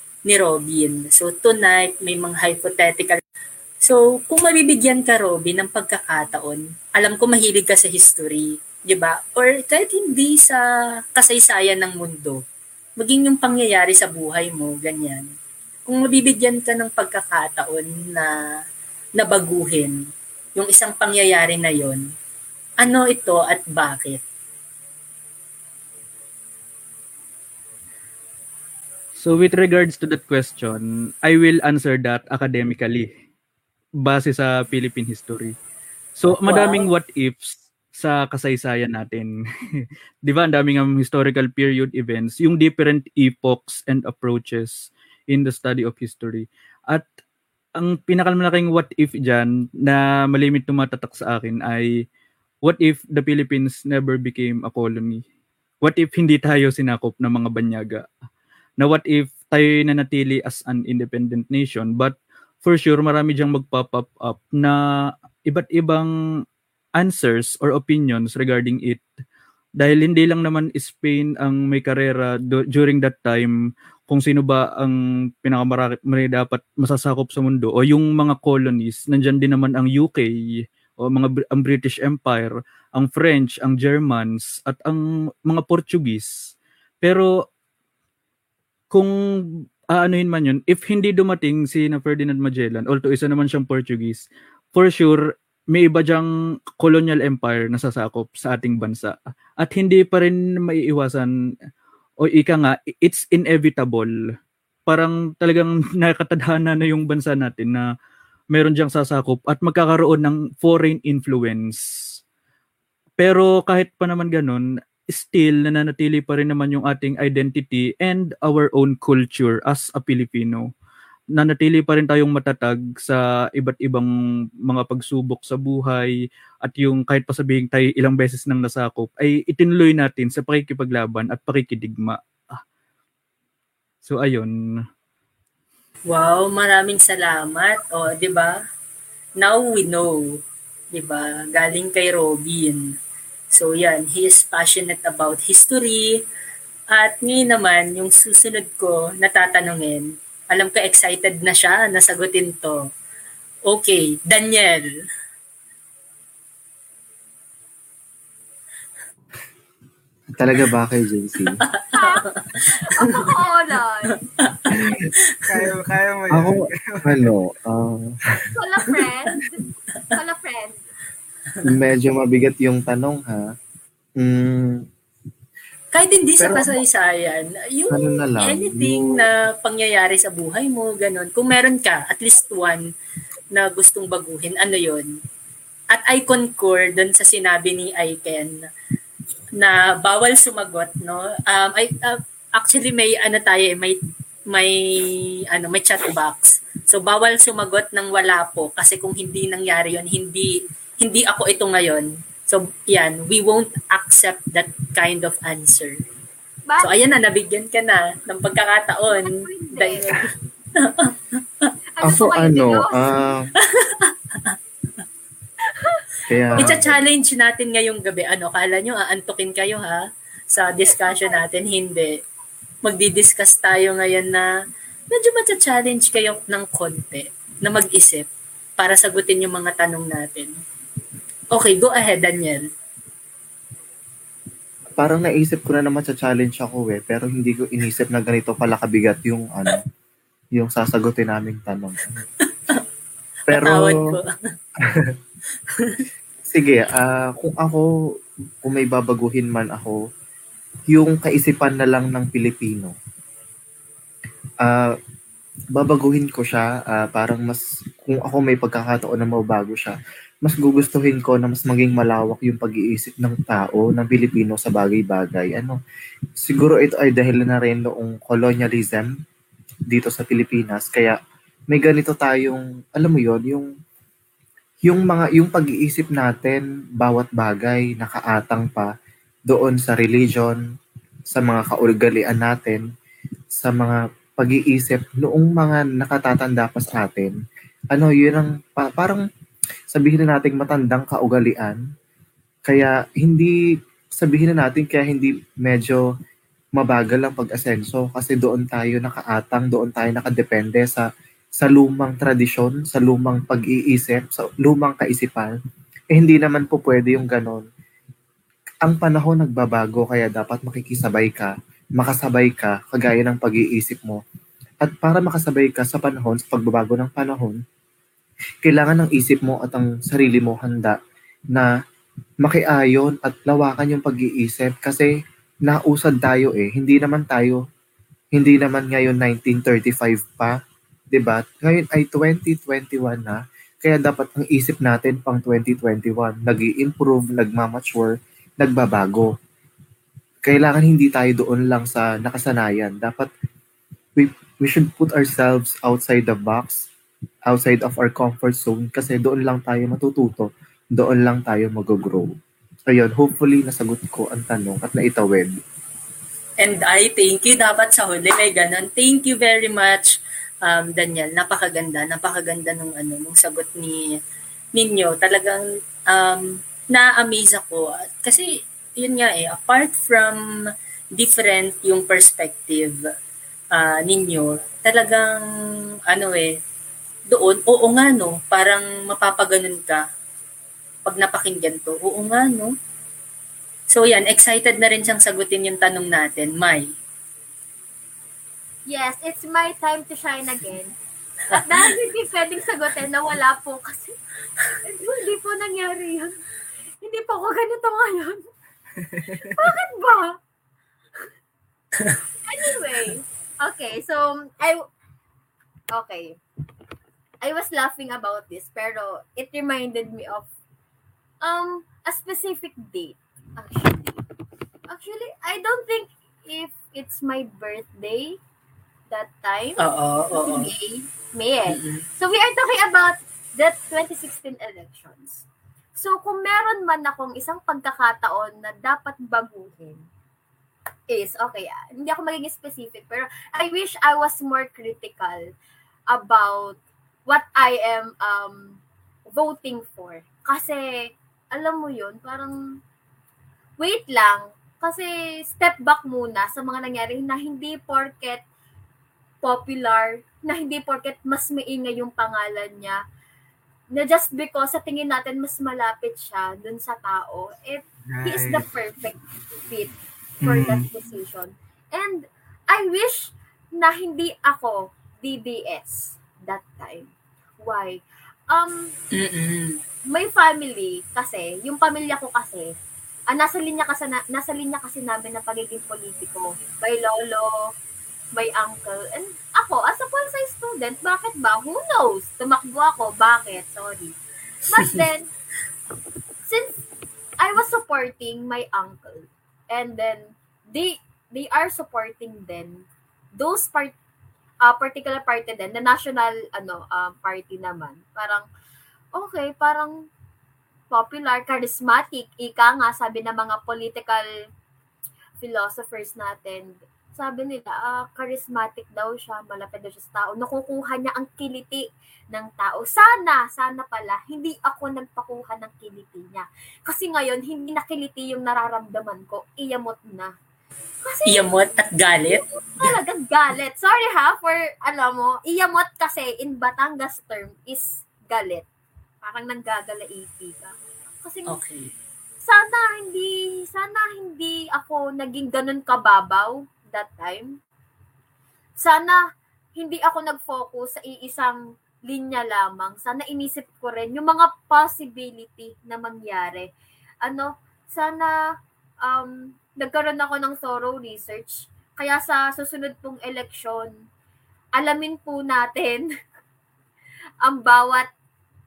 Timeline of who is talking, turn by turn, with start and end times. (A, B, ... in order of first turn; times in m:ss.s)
0:00.3-0:03.2 A
0:03.8-0:10.6 A
0:11.1-0:12.4 A
0:13.0-0:15.3 A
0:15.9-0:18.3 A
0:19.2-0:20.0 A
0:20.6-0:22.0 A
0:22.8-0:24.2 A
0:29.2-0:33.1 B
0:34.0-0:35.5 B
0:36.2-0:47.1 B
0:36.5-0:36.9 A
0:47.8-0:51.9 B
0:52.6-0:55.2 B
0:55.8-0:58.1 B
0:58.8-1:04.8 B
1:05.5-1:06.1 B
1:07.0-1:09.0 B
1:09.8-1:13.5 B
1:14.1-1:20.3 B
1:21.0-1:26.3 B
1:27.0-1:27.3 B
1:28.9-1:35.2 B
1:35.7-1:36.3 B
1:36.8-1:41.3 B
1:42.2-1:44.1 B
1:44.9-1:47.8 B
1:48.5-1:51.8 B
1:53.2-2:00.7 B
2:01.4-2:04.1 B
2:04.6-2:06.1 B
2:06.6-2:12.6 B
2:14.0-2:14.5 B
2:16.1-2:18.6 A
2:19.4-2:20.4 A
2:20.9-2:22.9 A
2:23.5-2:26.2 A
2:26.9-2:32.8 A
2:33.7-2:34.9 A
2:40.4-2:41.6 C
2:41.6-2:43.3 A
2:41.9-2:42.2 D
2:42.8-2:44.2 D
2:44.4-2:45.5 A
2:44.7-2:45.0 C
2:45.5-2:47.3 E
2:46.3-2:48.1 C
2:48.6-2:49.6 D
2:50.1-2:50.8 D
2:51.6-2:53.5 C
2:54.2-2:54.8 C
2:55.9-3:02.8 A
2:56.4-2:56.8 C
2:57.9-2:59.1 C
3:03.5-3:05.1 A
3:05.9-3:08.6 A
3:09.6-3:14.0 A
3:14.5-3:26.0 A
3:26.7-3:27.0 D
3:26.8-3:31.7 A
3:29.1-3:30.0 D
3:32.0-3:33.0 D
3:32.0-3:33.5 C
3:33.6-3:34.6 A
3:35.7-3:36.0 D
3:36.3-3:37.0 C
3:36.6-3:42.2 A
3:40.9-3:41.4 D
3:42.8-3:44.5 A
3:45.1-3:48.3 A
3:48.8-3:50.5 A
3:51.5-3:52.6 A
3:55.0-3:59.8 C
4:00.6-4:02.2 C
4:02.4-4:02.8 A
4:03.5-4:03.9 C
4:03.5-4:04.3 A
4:04.8-4:05.1 C
4:05.7-4:06.0 A
4:06.5-4:07.8 C
4:08.6-4:10.0 C
4:10.9-4:12.9 C
4:14.6-4:14.9 C
4:15.8-4:25.8 C
4:26.4-4:29.1 C
4:29.9-4:31.2 C
4:31.7-4:33.7 C
4:34.9-4:38.9 C
4:39.5-4:40.6 C
4:41.3-4:42.8 C
4:43.6-4:47.3 C
4:47.9-4:49.2 C
4:49.9-4:51.8 C
4:52.7-4:53.5 C
4:54.2-4:56.0 C
4:56.8-5:01.0 C
5:01.6-5:05.5 C
5:06.1-5:07.6 C
5:08.8-5:14.2 C
5:14.8-5:17.6 C
5:18.6-5:21.0 C
5:22.4-5:25.1 C
5:25.6-5:27.6 C
5:28.3-5:30.6 C
5:31.1-5:39.3 C
5:40.4-5:43.3 C
5:44.2-5:46.9 C
5:47.5-5:52.3 C
5:52.9-5:55.5 C
5:56.6-6:00.1 A
6:00.6-6:04.0 A
6:04.7-6:10.4 A
6:11.1-6:13.0 A
6:13.7-6:15.4 A
6:16.1-6:16.5 A
6:17.3-6:20.0 A
6:21.0-6:22.7 A
6:23.9-6:26.9 A
6:28.9-6:30.9 D
6:31.5-6:34.2 D
6:31.5-6:31.9 A
6:34.8-6:36.3 D
6:37.0-6:38.5 D
6:39.0-6:39.5 E
6:39.5-6:40.3 D
6:42.4-6:44.8 D
6:45.9-6:46.4 D
6:47.4-6:50.5 D
6:51.4-6:54.2 D
6:54.9-6:58.4 D
6:59.1-6:59.8 D
6:59.8-7:00.7 A
7:00.3-7:05.4 D
7:01.7-7:02.0 A
7:06.0-7:10.0 D
7:11.1-7:15.4 D
7:16.1-7:18.8 D
7:19.3-7:22.5 D
7:23.8-7:28.4 D
7:29.4-7:33.0 D
7:33.9-7:47.1 D
7:38.1-7:38.7 E
7:40.4-7:40.8 E
7:47.6-7:48.9 D
7:49.1-7:49.8 A
7:50.1-7:52.7 D
7:53.3-7:57.6 D
7:58.3-8:04.2 D
8:04.7-8:05.3 D
8:06.5-8:06.8 D
8:07.4-8:12.8 D
8:13.4-8:13.9 D
8:14.6-8:18.4 D
8:19.1-8:19.9 D
8:20.9-8:24.3 D
8:25.4-8:40.3 D
8:41.0-8:41.5 D
8:41.3-8:42.9 A
8:42.3-8:48.6 D
8:49.2-8:51.6 D
8:51.5-8:51.9 A
8:52.4-8:57.6 D
8:58.8-8:59.2 D
8:59.8-9:06.7 D
9:07.2-9:08.3 D
9:09.0-9:13.9 D
9:14.8-9:16.1 D
9:17.4-9:18.1 D